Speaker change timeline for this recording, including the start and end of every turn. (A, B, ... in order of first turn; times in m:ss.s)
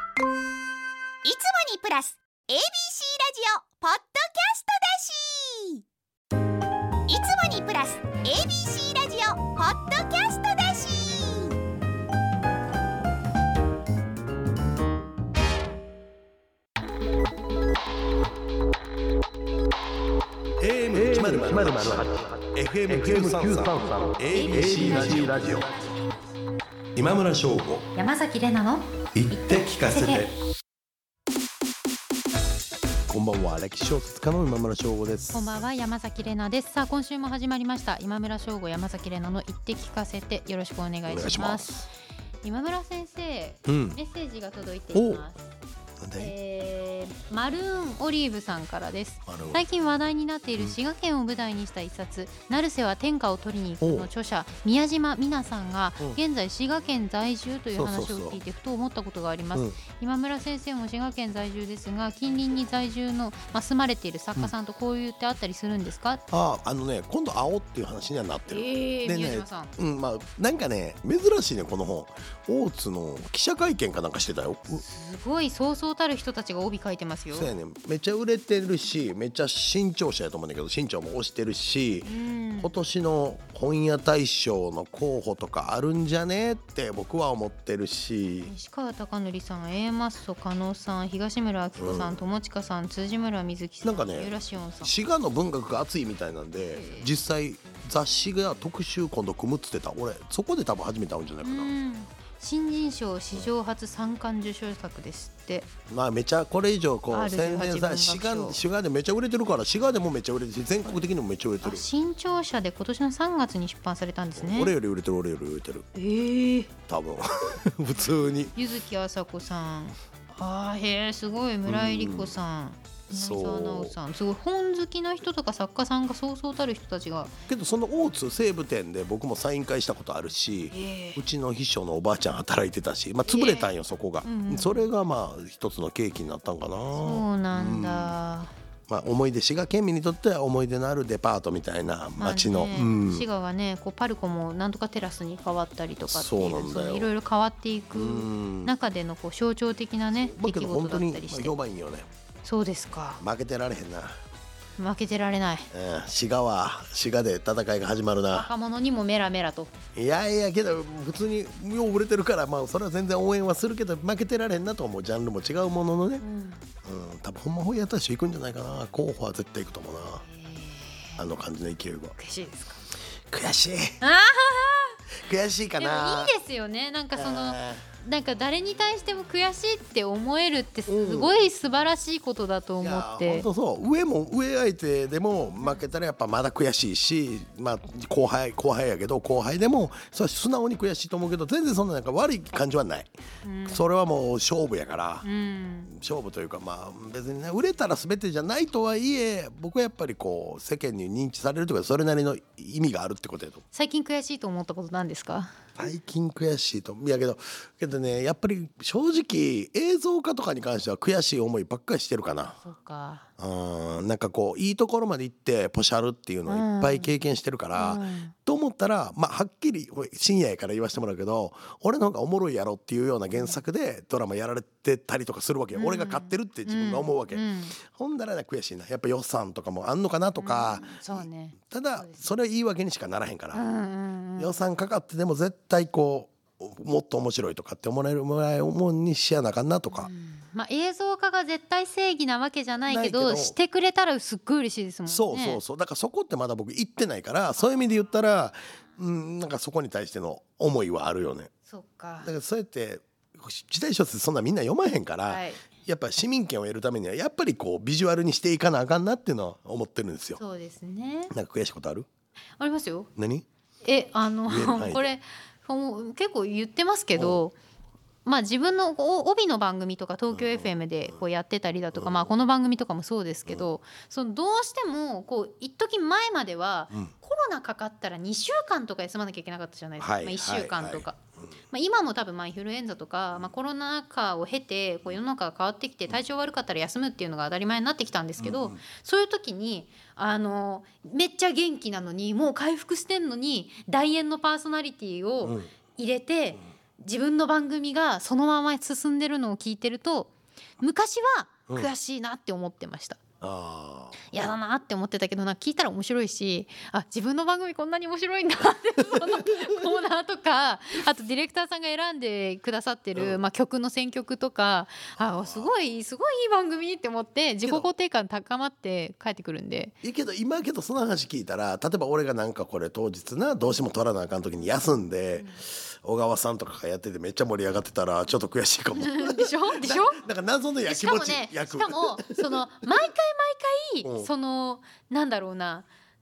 0:01.2-0:05.8 A
0:07.1-0:11.6 A
0:20.6-0:25.7 B
0:24.3-0:25.5 C
0:26.9-0:27.9 B
0:27.9-0:30.3 C
0:29.1-0:30.3 B
0:33.1-0:35.5 B
0:35.3-0:41.7 C
0:41.1-0:41.9 B
0:42.4-0:45.5 C
0:43.6-0:44.0 B
0:44.9-0:45.2 B
0:46.0-0:46.3 B
0:46.2-1:06.2 C
0:49.2-0:49.6 B
0:53.8-0:54.1 B
0:57.8-0:58.4 B
1:06.3-1:14.8 B
1:08.5-1:09.7 C
1:14.8-1:17.5 C
1:17.3-1:28.5 B
1:22.0-1:22.8 C
1:28.4-1:34.9 C
1:31.8-1:32.2 B
1:33.8-1:41.7 B
1:36.7-1:37.1 C
1:41.4-1:45.7 C
1:45.9-1:51.8 B
1:47.1-1:48.6 C
1:51.6-1:54.8 C
1:54.4-1:55.9 B
1:55.9-1:56.7 C
1:56.8-1:58.5 B
1:58.5-2:07.4 C
2:01.6-2:02.4 B
2:03.1-2:04.0 B
2:07.5-2:18.2 B
2:10.7-2:11.2 C
2:13.2-2:13.7 C
2:14.2-2:14.9 C
2:17.0-2:18.5 C
2:18.9-2:23.3 B
2:22.2-2:31.5 C
2:26.1-2:27.1 B
2:27.9-2:28.7 B
2:30.1-2:32.1 B
2:32.4-2:33.2 C
2:33.2-2:34.2 B
2:34.8-2:35.7 C
2:35.7-2:38.5 B
2:38.3-2:39.7 C
2:39.9-2:46.2 B
2:46.2-2:46.6 C
2:46.8-2:50.2 B
2:50.3-2:51.2 C
2:51.2-2:52.2 B
2:52.2-2:52.8 C
2:53.3-2:54.0 B
2:54.0-2:55.0 C
2:55.2-2:56.4 B
2:55.8-3:03.5 C
2:57.2-2:57.8 B
3:00.9-3:01.4 B
3:02.8-3:13.1 B
3:13.4-3:13.8 C
3:13.7-3:15.2 B
3:15.2-3:15.9 C
3:15.9-3:23.6 B
3:23.7-3:25.5 C
3:25.8-3:32.6 B
3:32.6-3:33.3 C
3:33.4-3:53.6 B
3:36.5-3:37.1 C
3:37.7-3:38.3 C
3:43.3-3:43.6 C
3:45.7-3:47.7 C
3:50.4-3:52.2 C
3:53.5-3:54.5 C
3:54.4-4:00.1 B
3:59.9-4:05.6 C
4:02.9-4:03.6 B
4:05.1-4:11.5 B
4:11.7-4:12.3 C
4:12.2-4:20.4 B
4:15.3-4:15.6 C
4:20.4-4:21.3 C
4:21.3-4:22.1 B
4:22.6-4:23.1 C
4:23.2-4:23.4 B
4:23.8-4:27.6 C
4:24.5-4:25.1 B
4:27.1-4:27.4 B
4:28.2-4:41.2 C
4:30.3-4:31.2 B
4:31.9-4:32.3 B
4:40.0-4:41.5 B
4:41.7-5:03.2 C
4:48.4-4:48.8 B
4:55.4-4:55.7 B
5:03.4-5:04.5 B
5:04.3-5:19.9 C
5:09.2-5:09.8 B
5:15.1-5:15.7 B
5:17.6-5:17.9 B
5:20.0-5:32.6 B
5:29.0-5:30.2 C
5:30.8-5:35.9 C
5:34.0-5:34.3 B